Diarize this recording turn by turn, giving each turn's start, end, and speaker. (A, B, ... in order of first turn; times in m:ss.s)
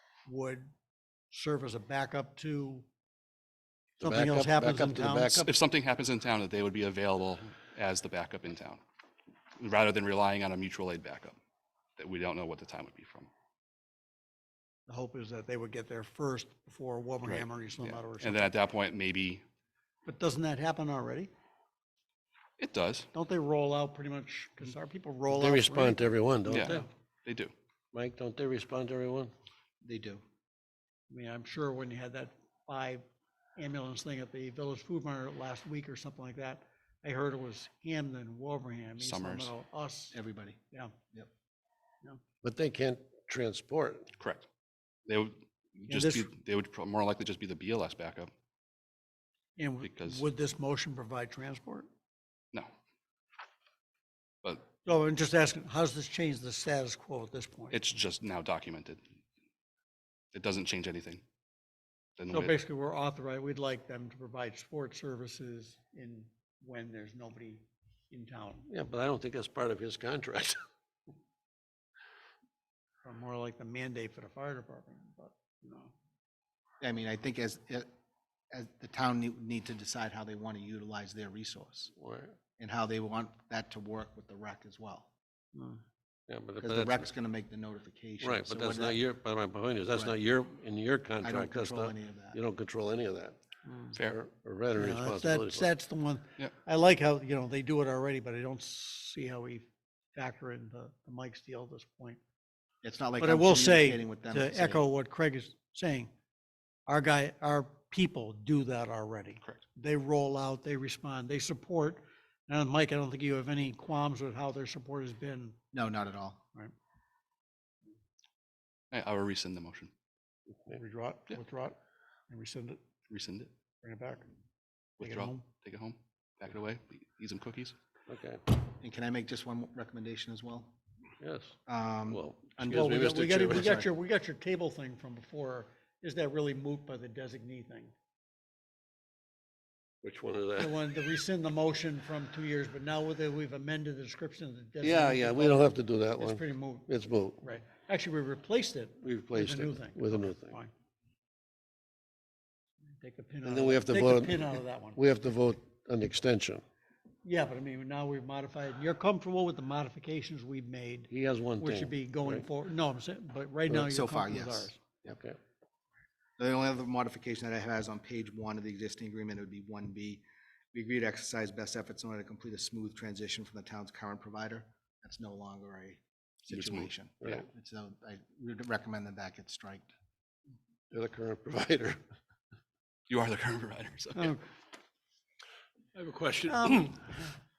0:00.2-0:00.7 A
0:01.3-0:02.8 A
0:04.0-0:05.5 B
0:04.0-0:05.4 A
0:05.4-0:08.8 C
0:09.6-0:11.4 C
0:12.0-0:13.3 C
0:14.9-0:18.4 A
0:17.2-0:19.4 C
0:20.0-0:21.3 A
0:22.6-0:23.1 C
0:23.1-0:26.9 A
0:25.3-0:26.8 B
0:26.5-0:27.5 C
0:27.9-0:29.3 B
0:29.8-0:30.2 D
0:31.1-0:33.0 A
0:33.6-0:40.2 A
0:39.0-0:39.5 C
0:40.1-0:40.6 D
0:42.4-0:44.1 B
0:44.2-0:44.5 C
0:45.0-0:48.3 C
0:45.9-0:46.3 A
0:49.6-0:51.9 A
0:49.8-0:50.2 C
0:54.8-0:57.8 A
0:57.7-0:59.0 C
1:00.3-1:01.2 C
1:02.2-1:02.6 C
1:02.3-1:08.7 A
1:08.7-1:10.6 B
1:13.0-1:15.9 A
1:16.8-1:17.9 D
1:18.5-1:21.9 D
1:22.0-1:22.4 B
1:22.6-1:25.1 D
1:25.5-1:25.8 A
1:26.3-1:27.1 B
1:26.6-1:29.0 D
1:28.2-1:33.4 B
1:31.2-1:32.4 D
1:33.7-1:34.0 A
1:33.9-1:35.7 B
1:34.8-1:42.2 A
1:42.8-1:44.8 D
1:43.2-1:46.1 A
1:46.9-1:55.6 A
1:55.7-1:56.4 D
1:58.9-1:59.9 C
2:00.7-2:01.8 A
2:02.3-2:02.8 A
2:03.1-2:03.5 C
2:03.8-2:04.3 A
2:05.0-2:07.8 C
2:05.0-2:05.4 A
2:08.1-2:08.4 B
2:08.8-2:10.8 D
2:11.2-2:11.6 B
2:11.7-2:13.9 D
2:12.1-2:13.8 B
2:12.6-2:17.9 A
2:20.0-2:20.9 B
2:20.6-2:26.9 A
2:24.8-2:27.4 B
2:27.4-2:30.7 A
2:29.0-2:30.6 B
2:32.8-2:35.0 A
2:33.4-2:36.6 B
2:37.2-2:44.8 A
2:41.1-2:42.4 B
2:43.7-2:45.2 D
2:45.0-2:45.4 B
2:46.4-2:59.9 D
2:56.5-2:56.9 C
3:00.9-3:02.0 B
3:03.1-3:04.3 C
3:04.2-3:04.4 A
3:06.0-3:07.2 C
3:06.0-3:06.7 B
3:06.5-3:06.8 A